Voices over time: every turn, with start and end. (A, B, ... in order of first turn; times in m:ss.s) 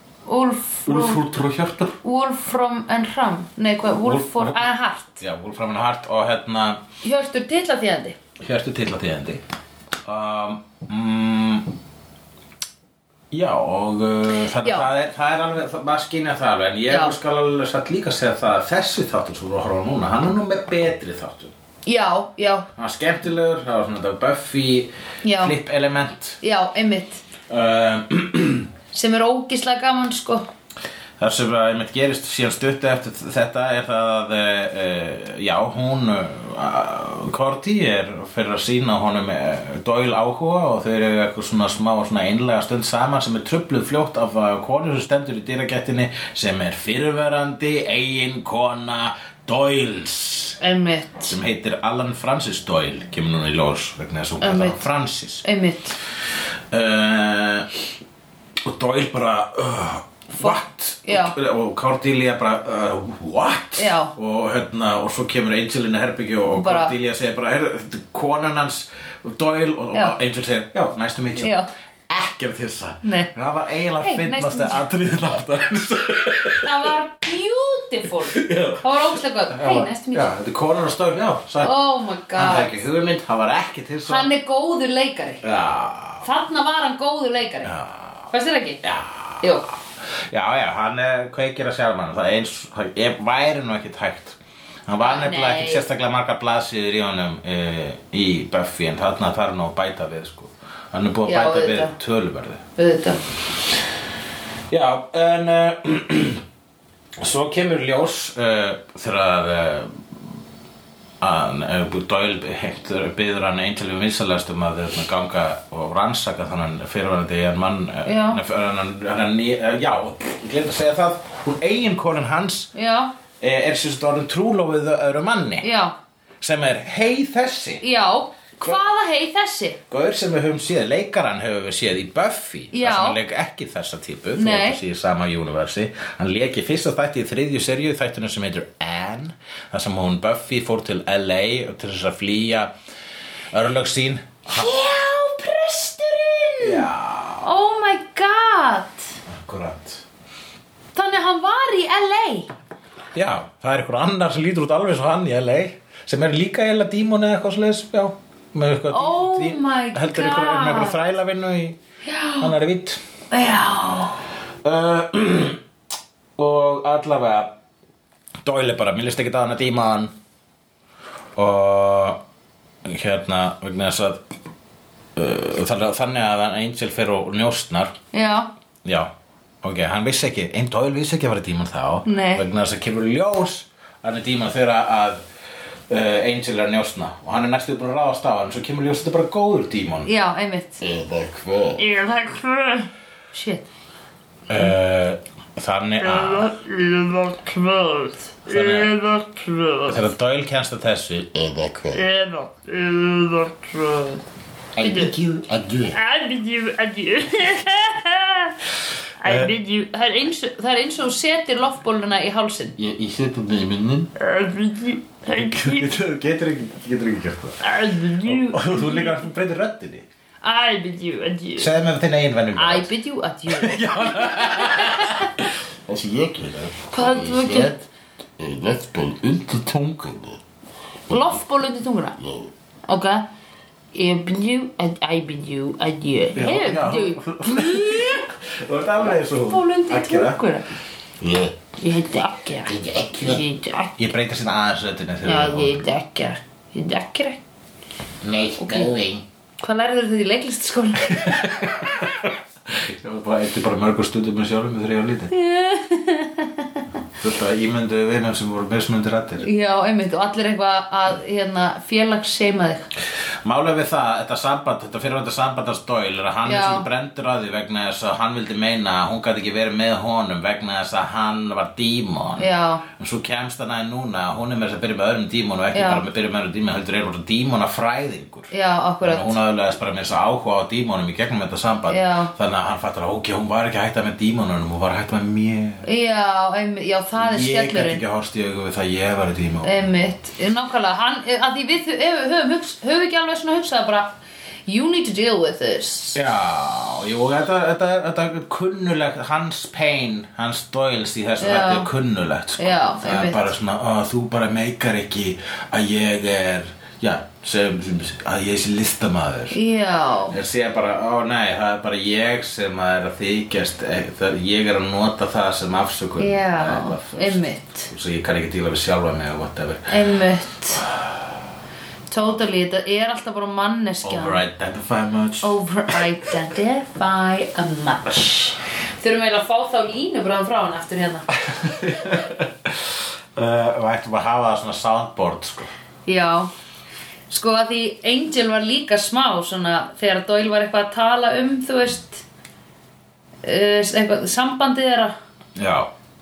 0:00.3-0:01.2 A
0:00.9-0:02.0 B
0:02.0-0:05.2 A
0:03.9-0:04.6 B
0:05.2-0:06.8 B
0:07.0-0:08.2 A
0:08.4-0:09.4 B
0:10.0-0:11.7 B
0:13.3-0:21.5 B
0:14.6-0:14.9 A
0:16.9-0:17.2 A
0:21.9-0:22.7 A
0:22.8-0:26.4 B
0:25.2-0:25.6 A
0:26.4-0:27.2 A
0:27.5-0:28.7 B
0:28.9-0:30.5 A
0:31.2-0:50.6 B
0:50.6-0:51.4 A
0:51.3-0:55.4 B
0:54.4-0:54.8 A
0:55.4-0:56.0 A
0:56.7-0:57.7 B
0:58.6-1:11.6 B
1:00.4-1:01.3 A
1:03.8-1:04.1 A
1:06.6-1:06.9 A
1:11.4-1:11.7 A
1:12.1-1:16.9 B
1:13.0-1:13.3 A
1:14.0-1:14.8 A
1:16.6-1:20.3 A
1:18.3-1:21.8 B
1:21.6-1:22.8 A
1:22.3-1:24.3 B
1:24.1-1:25.4 A
1:25.4-1:26.2 B
1:26.2-1:27.7 A
1:27.6-1:28.3 B
1:28.3-1:28.8 A
1:28.8-1:42.6 B
1:29.4-1:29.7 A
1:35.0-1:35.8 A
1:41.3-1:42.0 A
1:42.8-1:43.2 A
1:44.7-1:46.4 B
1:47.2-1:50.0 B
1:51.2-2:02.7 B
1:58.0-1:58.4 A
2:02.8-2:03.1 A
2:03.4-2:05.7 B
2:05.6-2:05.9 A
2:06.4-2:07.8 B
2:07.8-2:09.8 A
2:09.9-2:22.7 B
2:12.7-2:13.2 A
2:14.4-2:14.8 A
2:23.5-2:24.8 B
2:24.5-2:26.9 A
2:26.6-2:27.5 B
2:27.4-2:29.1 A
2:29.3-2:30.0 B
2:31.0-2:32.5 A
2:33.1-2:41.8 B
2:38.9-2:41.0 A
2:42.0-2:42.5 A
2:42.4-2:43.0 B
2:43.3-2:44.2 A
2:44.6-2:45.6 B
2:46.4-2:47.5 B
2:48.4-2:50.1 B
2:51.4-2:52.2 B
2:52.8-2:54.2 B
2:55.2-2:58.0 B
2:58.1-2:58.5 A
2:58.8-2:59.1 B
2:59.6-3:05.2 B
3:02.1-3:02.5 A
3:05.9-3:10.1 B
3:10.1-3:10.8 A
3:10.8-3:11.8 C
3:11.8-3:13.7 A
3:14.5-3:16.6 B
3:16.0-3:20.0 A
3:18.5-3:18.9 B
3:19.9-3:21.3 B
3:21.3-3:22.1 C
3:22.0-3:24.2 A
3:24.8-3:26.0 C
3:24.8-3:25.1 A
3:24.9-3:25.4 B
3:25.9-3:28.6 A
3:29.2-3:32.8 A
3:29.2-3:29.5 B
3:32.8-3:34.1 C
3:34.2-3:35.9 A
3:35.3-3:37.6 B
3:37.6-3:39.1 A
3:38.2-3:40.0 B
3:40.4-3:41.7 A
3:41.6-3:42.9 B
3:42.6-3:45.5 A
3:43.5-3:45.4 B
3:45.9-3:47.8 C
3:46.9-3:47.8 A
3:48.4-3:50.4 C
3:51.1-3:51.4 C
3:51.1-3:52.2 A
3:52.2-3:52.5 C
3:52.9-3:53.3 A
3:53.9-3:58.3 A
3:56.4-4:00.4 B
3:59.0-4:00.7 A
4:01.2-4:01.6 C
4:01.8-4:03.9 A
4:02.7-4:03.4 C
4:04.0-4:05.8 B
4:05.2-4:07.4 A
4:08.2-4:09.2 B
4:08.3-4:09.1 C
4:08.6-4:09.0 A
4:09.6-4:11.5 A
4:11.1-4:15.3 B
4:15.3-4:16.9 A
4:17.2-4:19.5 B
4:19.4-4:22.9 A
4:23.4-4:45.8 B
4:26.4-4:26.9 A
4:32.4-4:32.8 A
4:35.7-4:36.0 A
4:38.5-4:39.4 A
4:41.9-4:42.3 A
4:45.8-4:48.0 A
4:47.2-4:49.8 B
4:49.6-4:54.1 A
4:54.7-4:56.2 A
4:56.2-5:09.6 B
5:01.4-5:01.9 A
5:02.6-5:03.5 A
5:09.5-5:10.4 A
5:10.3-5:20.0 B
5:16.2-5:17.9 A
5:19.9-5:20.8 A
5:20.8-5:21.1 B
5:22.1-5:24.4 A
5:24.0-5:25.6 B
5:25.4-5:31.3 A
5:31.4-5:35.7 B
5:36.1-5:36.5 A
5:37.3-5:42.2 A
5:43.4-5:45.1 A
5:45.6-5:45.9 B